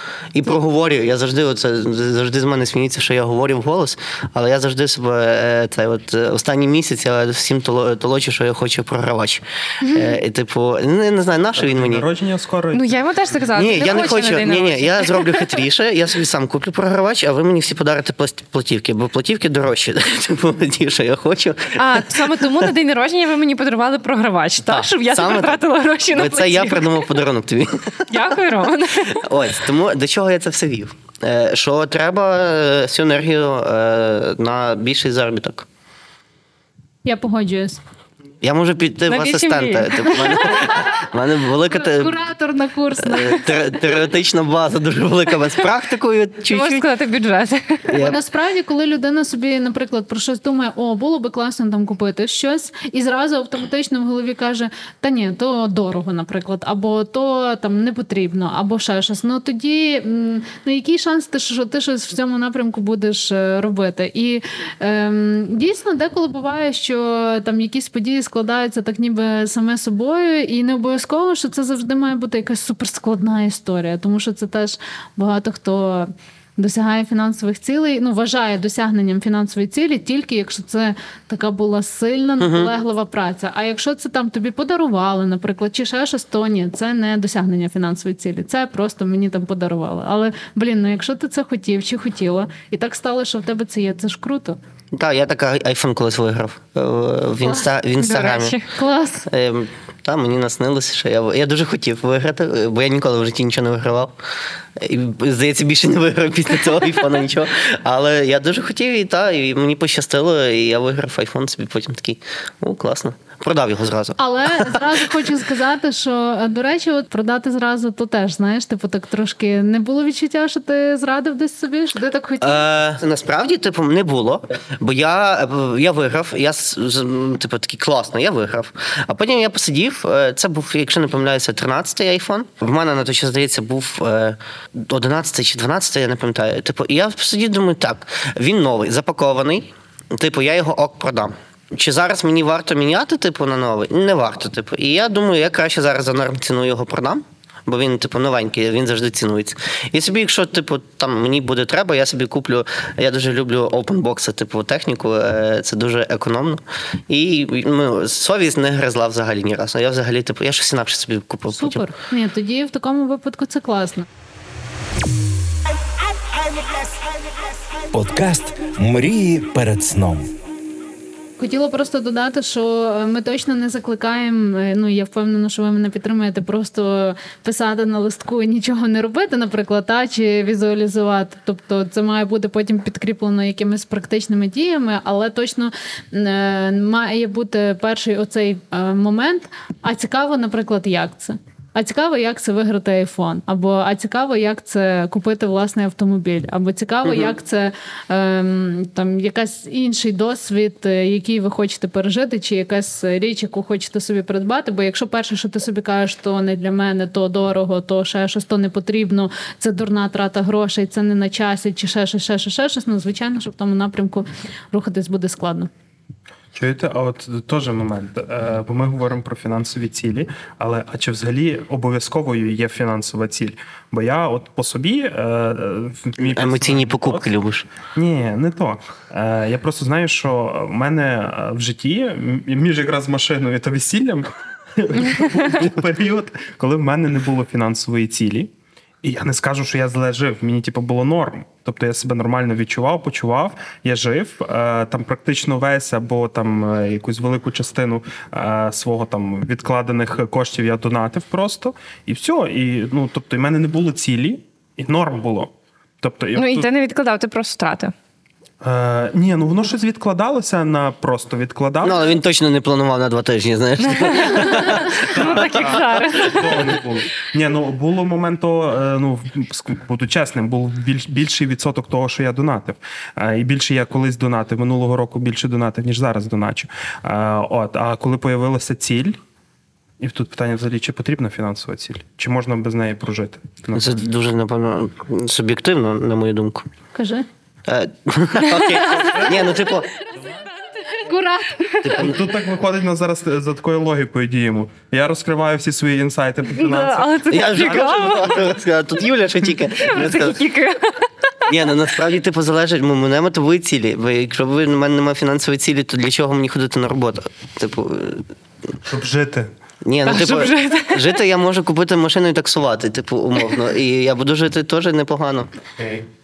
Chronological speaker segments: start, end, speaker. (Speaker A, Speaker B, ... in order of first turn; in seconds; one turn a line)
Speaker A: 0.3-12.1
Speaker B: 11.6-13.1
Speaker C: 12.7-15.6
Speaker A: 13.6-22.7
Speaker B: 13.7-14.3
Speaker C: 21.8-26.9
Speaker A: 24.6-25.6
Speaker A: 26.1-28.2
Speaker C: 28.1-29.2
Speaker A: 29.1-35.7
Speaker D: 37.0-37.8
Speaker A: 38.4-42.2
Speaker C: 39.1-40.6
Speaker D: 40.3-40.9
Speaker D: 41.7-43.5
Speaker A: 43.0-46.9
Speaker C: 46.5-48.1
Speaker A: 47.9-48.2
Speaker D: 48.0-94.6
Speaker A: 82.4-82.7
Speaker A: 94.9-98.6
Speaker C: 98.0-98.7
Speaker D: 98.7-99.3
Speaker A: 99.3-104.1
Speaker A: 104.8-115.0
Speaker D: 114.2-122.7
Speaker A: 122.4-161.8
Speaker D: 161.5-164.1
Speaker E: 167.9-170.3
Speaker D: 171.4-215.7
Speaker B: 216.5-227.3
Speaker A: 226.2-227.7
Speaker B: 227.9-238.5
Speaker B: 239.0-256.7
Speaker C: 256.4-257.9
Speaker B: 258.6-262.2
Speaker A: 261.8-266.3
Speaker C: 263.8-266.8
Speaker B: 265.0-279.2
Speaker B: 280.0-284.0
Speaker A: 283.8-286.7
Speaker D: 286.9-287.3
Speaker A: 287.7-290.0
Speaker B: 289.0-289.4
Speaker D: 290.9-291.9
Speaker A: 291.8-292.2
Speaker B: 291.9-298.6
Speaker C: 296.6-298.4
Speaker A: 297.3-300.4
Speaker C: 299.8-301.1
Speaker A: 301.5-308.3
Speaker B: 308.9-309.5
Speaker A: 309.8-315.5
Speaker C: 310.1-311.2